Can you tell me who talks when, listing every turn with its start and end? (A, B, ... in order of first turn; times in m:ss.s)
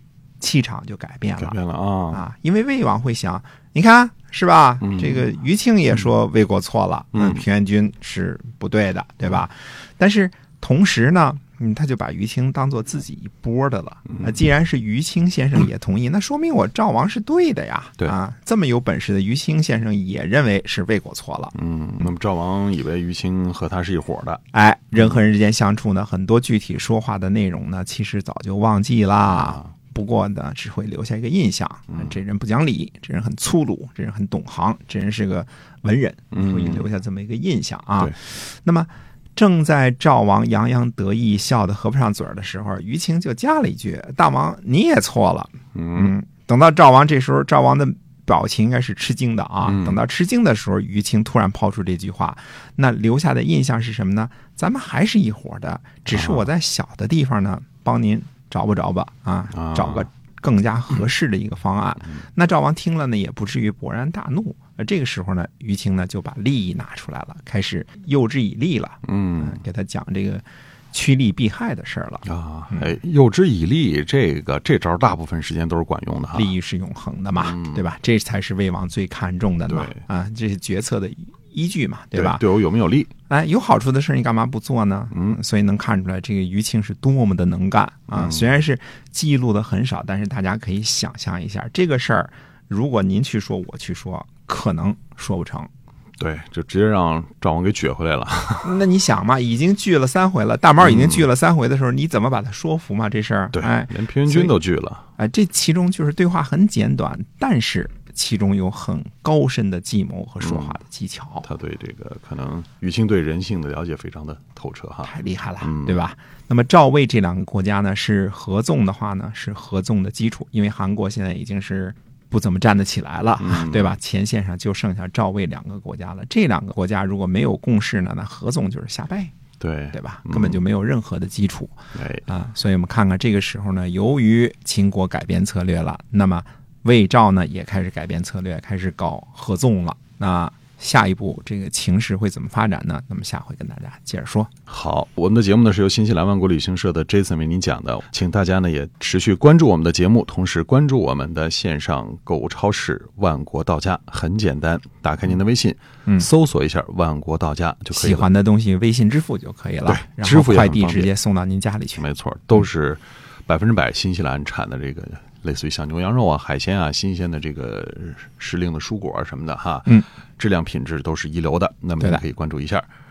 0:00.4-0:01.6 A
0:01.4-0:02.2 B
0:02.1-0:21.5 A
0:04.8-0:05.3 B
0:07.1-0:07.4 B
0:21.5-0:24.4 B
0:24.5-1:12.9 A
0:36.3-0:36.8 B
0:45.7-0:46.1 B
0:49.6-0:50.0 B
0:56.1-0:56.4 B
0:59.5-1:00.1 B
1:09.0-1:09.6 B
1:12.2-1:16.5 B
1:16.3-1:22.4 A
1:17.4-1:17.8 B
1:19.7-1:20.0 B
1:22.1-1:23.1 B
1:23.3-1:35.7 A
1:28.1-1:28.5 B
1:36.2-1:38.8 B
1:38.6-1:44.5 A
1:40.8-1:41.3 B
1:43.5-1:45.0 B
1:45.2-1:51.5 A
1:50.4-1:50.8 B
1:51.4-1:56.0 B
1:55.0-2:09.3 A
2:03.4-2:04.0 B
2:09.6-2:10.6 B
2:09.9-2:11.7 A
2:11.9-2:12.3 B
2:12.3-2:24.5 A
2:24.7-2:38.3 B
2:37.9-2:42.0 A
2:39.8-2:41.1 B
2:42.0-2:52.8 B